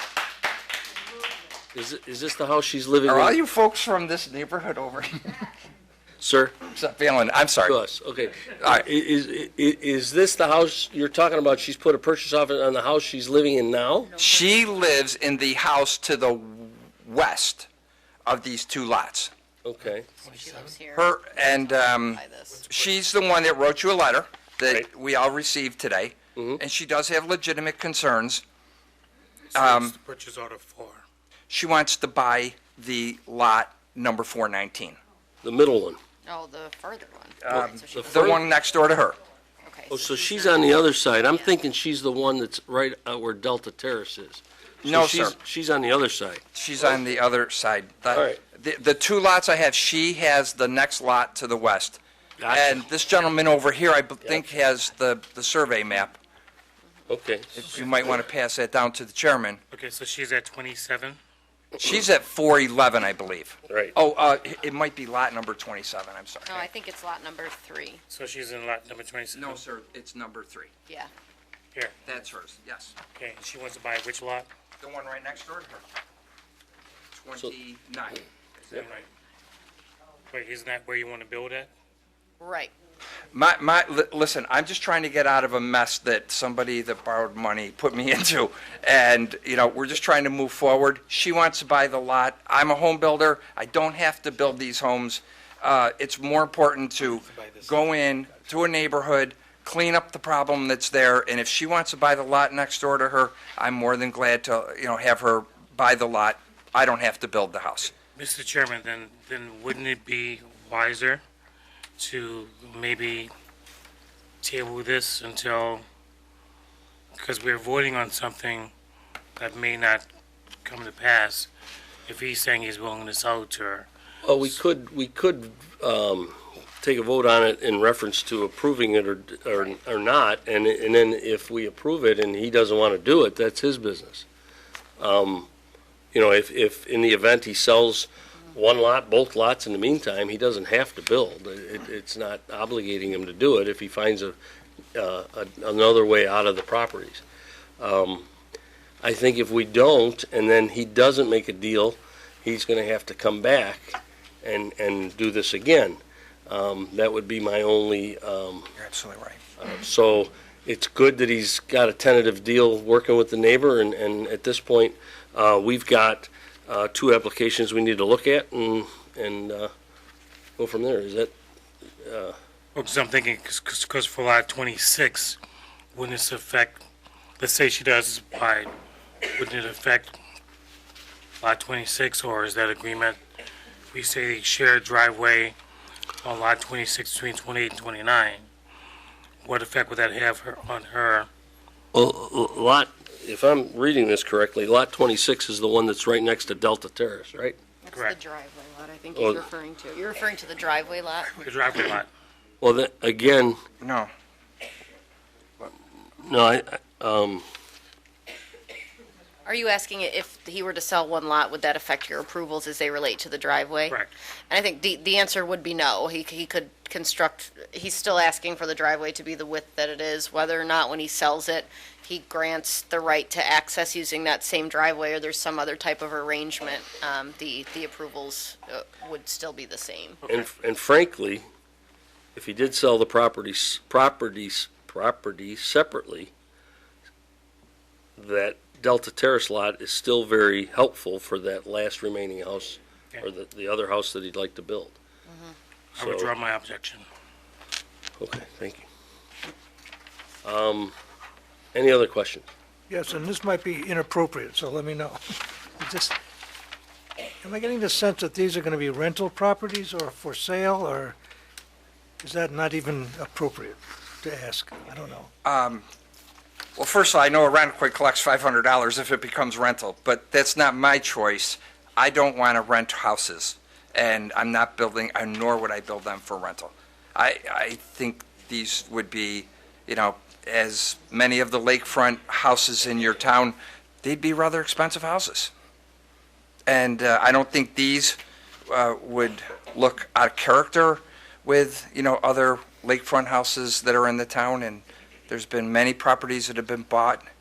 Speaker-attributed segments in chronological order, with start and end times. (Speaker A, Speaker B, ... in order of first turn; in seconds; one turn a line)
Speaker A: 1.7-3.4
Speaker B: 3.0-5.4
Speaker A: 6.2-6.6
Speaker B: 6.7-7.8
Speaker A: 7.6-14.2
Speaker B: 14.2-17.7
Speaker B: 18.2-19.3
Speaker A: 19.6-20.1
Speaker C: 20.2-20.8
Speaker D: 20.2-22.6
Speaker B: 20.9-28.4
Speaker C: 22.5-22.9
Speaker A: 26.4-26.6
Speaker B: 29.5-29.9
Speaker C: 29.5-31.0
Speaker B: 31.5-35.0
Speaker A: 35.4-36.0
Speaker D: 36.2-38.4
Speaker B: 37.5-39.2
Speaker A: 37.9-38.4
Speaker D: 39.6-41.5
Speaker A: 39.9-46.4
Speaker B: 44.8-45.4
Speaker B: 46.5-56.2
Speaker A: 48.1-48.4
Speaker A: 52.4-52.8
Speaker A: 57.1-57.5
Speaker B: 57.5-59.6
Speaker C: 59.7-61.2
Speaker B: 61.8-66.7
Speaker A: 63.7-63.9
Speaker D: 66.5-68.0
Speaker C: 68.1-69.6
Speaker B: 69.3-70.7
Speaker B: 72.0-72.9
Speaker C: 73.1-74.5
Speaker B: 74.8-75.8
Speaker B: 77.1-78.8
Speaker C: 78.7-79.0
Speaker C: 80.3-81.7
Speaker D: 82.4-82.7
Speaker B: 83.3-107.9
Speaker C: 108.2-111.2
Speaker C: 112.0-113.3
Speaker C: 114.4-115.8
Speaker C: 117.2-118.7
Speaker C: 119.4-120.0
Speaker C: 120.6-121.5
Speaker C: 122.1-123.9
Speaker A: 124.2-134.3
Speaker A: 135.0-135.5
Speaker A: 136.1-144.4
Speaker A: 144.9-147.2
Speaker A: 147.8-148.3
Speaker A: 149.0-158.7
Speaker B: 158.8-159.4
Speaker A: 159.6-169.7
Speaker A: 170.6-171.3
Speaker A: 172.0-172.4
Speaker C: 172.8-175.4
Speaker C: 175.9-176.8
Speaker C: 177.4-178.7
Speaker C: 179.3-180.2
Speaker C: 181.4-183.2
Speaker C: 183.9-185.6
Speaker C: 186.2-188.5
Speaker C: 189.4-191.3
Speaker A: 191.9-197.6
Speaker D: 197.8-201.4
Speaker A: 199.1-199.4
Speaker C: 201.4-202.1
Speaker A: 202.6-203.6
Speaker B: 203.8-204.1
Speaker A: 206.2-207.5
Speaker D: 209.4-230.2
Speaker A: 230.3-231.4
Speaker A: 232.3-236.3
Speaker A: 238.2-245.0
Speaker D: 245.3-245.6
Speaker C: 245.9-247.1
Speaker A: 246.0-246.3
Speaker A: 248.2-248.8
Speaker A: 250.4-250.9
Speaker A: 251.7-252.5
Speaker E: 252.9-256.2
Speaker E: 257.4-261.1
Speaker E: 262.2-265.3
Speaker B: 265.4-265.9
Speaker B: 266.8-285.5
Speaker B: 286.7-297.3